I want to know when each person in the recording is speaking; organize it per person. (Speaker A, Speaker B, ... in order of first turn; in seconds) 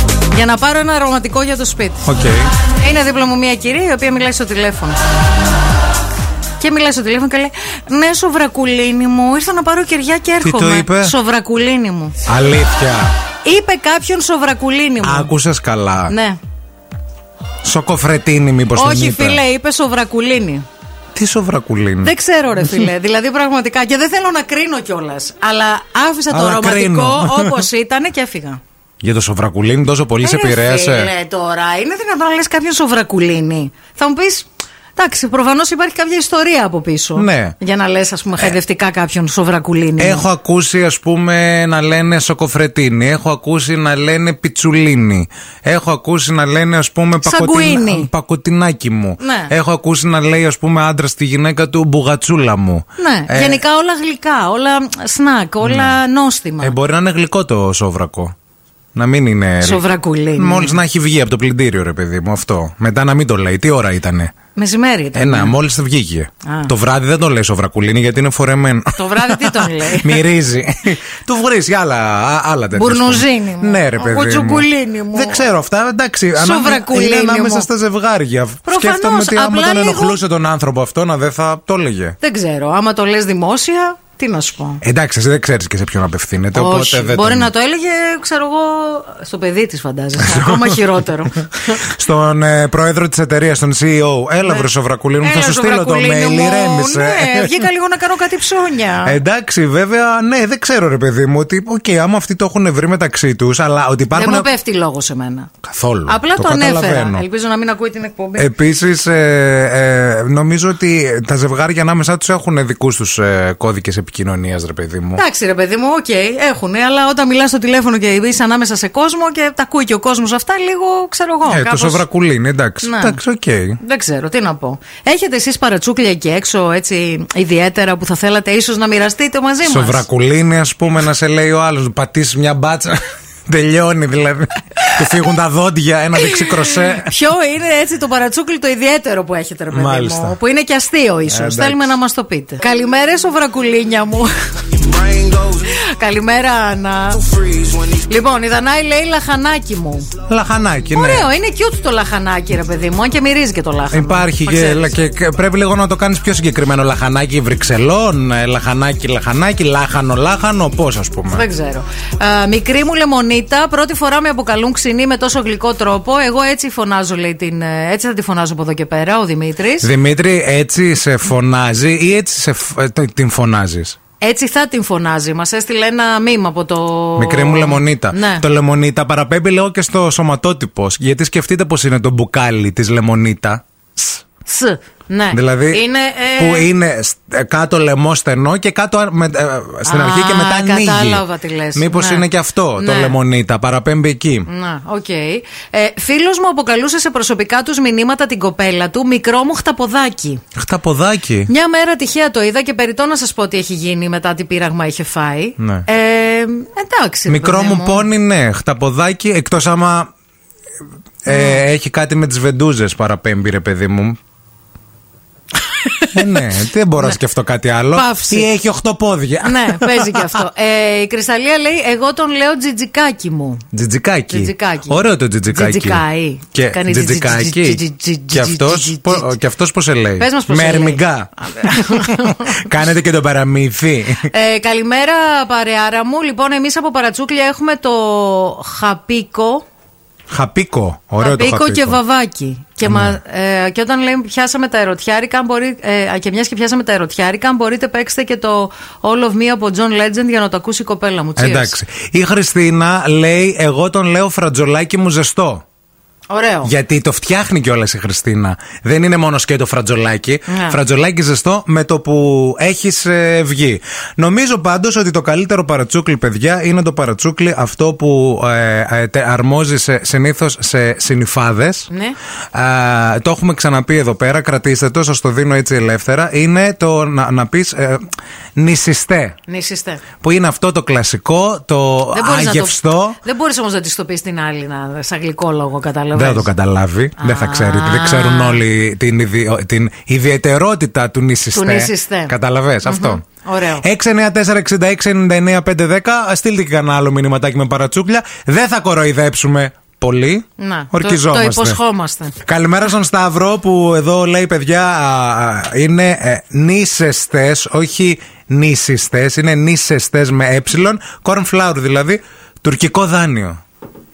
Speaker A: 0.3-2.1, 2.8-5.0, 6.6-12.2, 13.4-15.3, 16.1-16.4, 18.8-20.7, 22.0-28.6, 30.2-40.2, 47.2-48.1, 49.2-49.5, 53.0-56.7, 59.6-60.8, 64.5-65.5, 66.5-66.7, 69.0-70.2, 72.7-75.5, 76.4-77.7, 78.7-80.2, 82.2-84.8, 86.5-91.8, 95.2-99.2, 104.1-105.5, 106.1-108.5, 115.2-122.0, 122.8-123.2, 123.8-130.0, 136.2-150.1, 150.9-154.9, 161.3-169.9, 174.2-178.4, 184.5-186.7, 189.8-192.2, 192.8-193.2, 194.5-200.4, 201.5-208.1, 211.3-211.6, 215.6-216.4, 217.9-218.5, 219.4-223.6, 224.3-229.3, 230.2-232.7, 234.2-239.6, 241.2-251.8, 256.3-256.7, 260.5-260.8, 271.9-272.2, 279.5-280.0, 282.1-286.5, 287.2-288.6, 291.5-293.9, 300.6-302.4
Speaker B: 2.1-2.5, 10.4-11.2, 12.3-13.1, 15.0-16.1, 17.6-19.4, 21.1-22.1, 26.3-27.6, 29.0-31.1, 37.2-37.6, 40.0-53.6, 55.6-56.0, 56.6-58.4, 59.0-59.8, 60.4-64.3, 65.2-82.2, 84.8-87.5, 90.2-90.8, 91.7-97.7, 99.0-104.5, 105.6-107.2, 108.4-115.2, 121.5-123.8, 129.6-137.1, 139.7-140.4, 141.3-142.0, 150.3-151.3, 153.9-161.5, 169.8-174.0, 177.2-184.2, 185.3-185.8, 186.4-191.2, 191.8-194.5, 200.6-201.5, 205.6-205.9, 207.3-210.1, 211.2-214.2, 216.1-220.4, 223.7-234.3, 240.3-242.0, 242.8-243.2, 251.4-255.6, 256.6-271.9, 272.5-278.0, 278.6-279.4, 280.2-283.2, 286.2-293.2, 293.8-301.8, 302.4-313.6